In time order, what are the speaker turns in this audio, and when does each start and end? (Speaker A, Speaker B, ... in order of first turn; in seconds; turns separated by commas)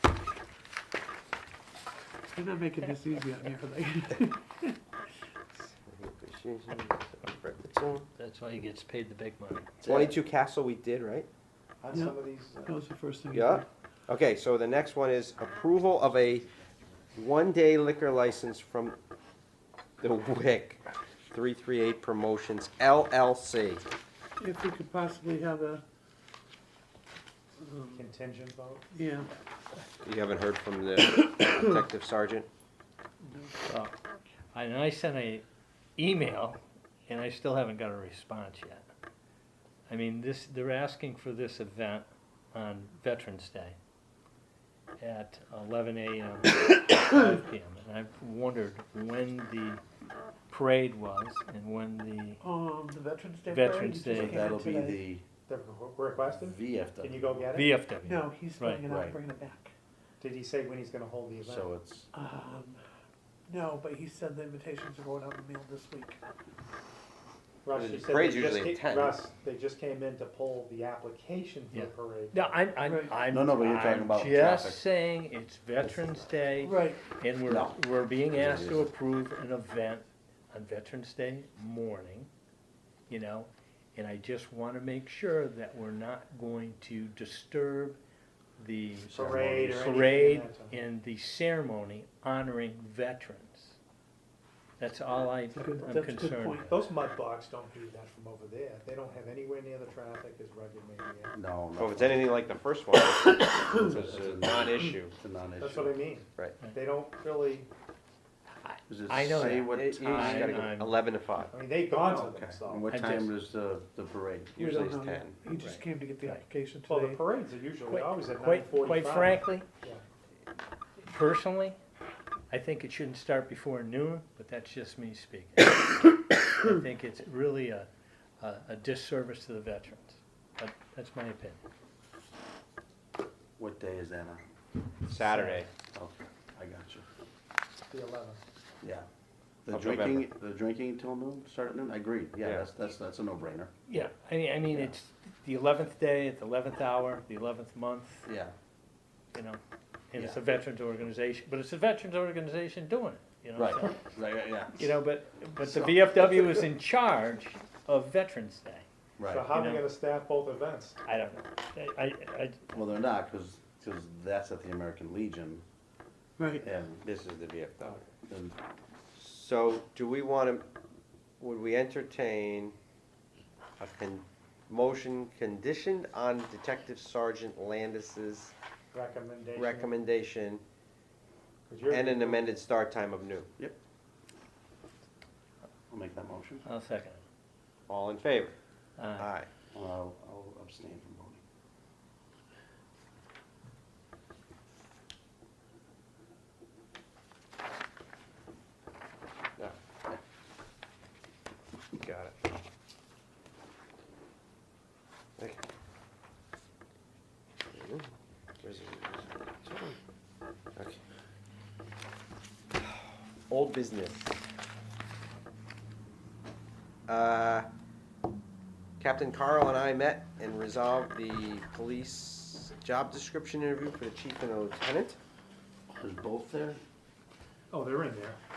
Speaker A: 2.3-4.8, Speaker B: 5.6-8.1, Speaker C: 8.2-9.7, Speaker D: 9.8-10.1, Speaker B: 9.8-11.3, Speaker E: 11.8-12.8, Speaker A: 11.9-13.6, Speaker B: 13.3-16.5, Speaker B: 17.1-19.0, Speaker B: 20.0-23.8, Speaker A: 24.4-25.8, Speaker A: 27.6-28.0, Speaker E: 27.9-28.8, Speaker A: 28.9-29.3, Speaker B: 30.0-32.5, Speaker A: 33.2-33.7, Speaker C: 33.7-33.9, Speaker C: 34.5-35.5, Speaker C: 36.0-38.8, Speaker C: 39.9-43.8, Speaker C: 45.0-49.8, Speaker C: 50.5-52.4, Speaker A: 52.4-55.0, Speaker C: 53.5-54.5, Speaker D: 54.1-55.2, Speaker E: 55.5-57.7, Speaker D: 56.3-57.5, Speaker C: 57.5-58.8, Speaker A: 57.9-59.7, Speaker D: 58.9-59.2, Speaker E: 60.2-61.7, Speaker D: 61.4-62.1, Speaker A: 62.1-62.8, Speaker A: 63.5-66.2, Speaker E: 67.6-72.4, Speaker B: 67.7-69.2, Speaker C: 71.7-82.3, Speaker A: 72.8-73.2, Speaker D: 73.3-74.8, Speaker A: 76.6-77.1, Speaker D: 77.5-77.8, Speaker D: 78.3-78.9, Speaker C: 83.1-88.0, Speaker C: 88.6-93.8, Speaker D: 89.1-90.1, Speaker E: 89.1-90.8, Speaker C: 94.8-96.6, Speaker A: 95.5-96.8, Speaker E: 96.7-101.3, Speaker D: 101.3-102.3, Speaker B: 101.8-105.1, Speaker D: 103.7-106.0, Speaker E: 105.6-107.7, Speaker C: 108.6-111.0, Speaker D: 108.9-110.6, Speaker B: 109.4-111.5, Speaker E: 111.5-112.9, Speaker D: 112.0-114.9, Speaker C: 112.9-113.3, Speaker B: 114.6-115.4, Speaker A: 114.6-117.2, Speaker C: 115.5-116.4, Speaker E: 116.9-120.0, Speaker C: 117.9-119.7, Speaker C: 121.0-121.8, Speaker C: 122.5-127.9, Speaker C: 128.4-131.6, Speaker D: 133.6-134.4, Speaker B: 135.1-135.7, Speaker E: 135.3-135.6, Speaker D: 135.9-137.0, Speaker E: 137.9-138.4, Speaker D: 139.7-143.7, Speaker B: 139.7-140.3, Speaker B: 142.4-142.7, Speaker C: 143.9-148.2, Speaker D: 144.7-144.9, Speaker D: 148.2-148.5, Speaker C: 149.3-149.6, Speaker C: 150.1-154.0, Speaker D: 153.6-155.0, Speaker C: 154.8-158.8, Speaker D: 155.6-156.7, Speaker D: 159.2-159.5, Speaker E: 159.3-161.0, Speaker C: 159.5-159.9, Speaker C: 161.1-162.6, Speaker D: 162.7-165.6, Speaker A: 166.4-166.6, Speaker D: 166.6-167.1, Speaker B: 167.0-168.1, Speaker D: 168.3-168.6, Speaker B: 169.1-170.6, Speaker B: 171.4-172.8, Speaker B: 173.8-178.5, Speaker E: 178.9-179.9, Speaker B: 179.5-180.6, Speaker E: 181.7-182.7, Speaker B: 181.9-183.5, Speaker D: 185.9-186.6, Speaker C: 186.7-187.2, Speaker B: 187.9-188.5, Speaker C: 189.0-189.3, Speaker B: 189.2-189.5, Speaker D: 189.7-191.4, Speaker B: 202.0-202.4, Speaker B: 207.7-208.1, Speaker B: 208.6-210.0, Speaker B: 212.8-214.3, Speaker B: 217.1-217.7, Speaker B: 219.0-225.2, Speaker D: 225.9-226.8, Speaker E: 227.7-228.4